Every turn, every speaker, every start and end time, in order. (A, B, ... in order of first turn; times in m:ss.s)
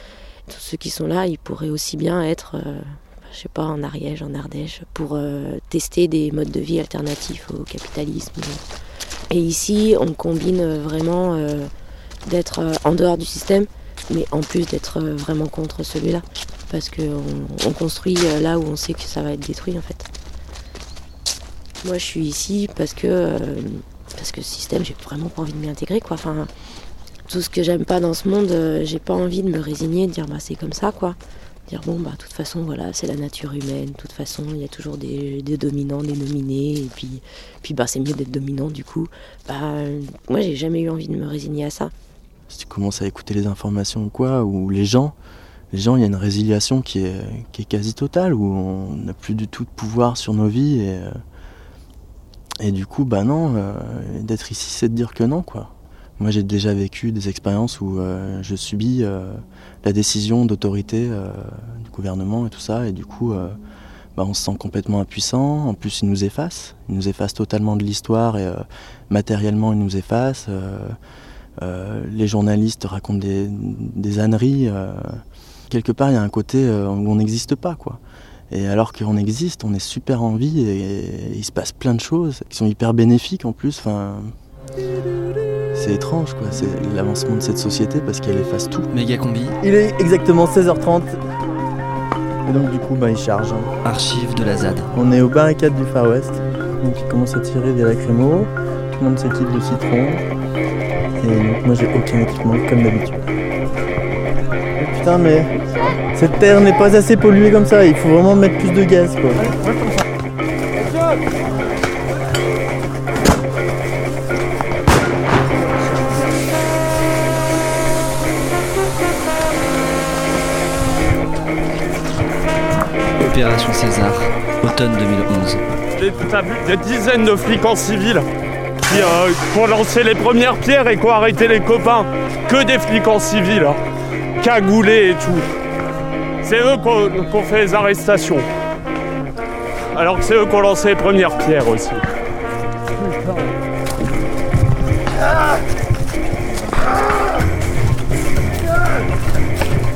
0:00.5-0:08.6 A
0:09.3-0:11.7 A
0:12.2-0:20.0 A
0:21.8-0:26.5 A
0:27.3-0:31.2 A
0:31.7-0:41.9 A
0:42.5-0:45.1 B
0:45.7-0:51.1 B
0:52.6-1:03.6 B
1:04.2-1:10.9 B
1:11.6-1:15.2 B
1:15.7-1:18.0 B
1:18.5-1:24.3 B
1:25.7-1:28.9 B
1:28.9-1:29.6 C
1:29.6-1:31.2 D
1:32.4-1:33.7 D
1:33.8-1:34.9 C
1:34.9-1:40.2 D
1:41.2-1:43.3 D
1:44.8-1:45.5 D
1:46.1-1:49.4 D
2:03.2-2:05.6 C
2:06.0-2:08.2 E
2:08.9-2:13.8 E
2:14.4-2:15.4 E
2:16.4-2:18.4 E
2:19.9-2:22.0 E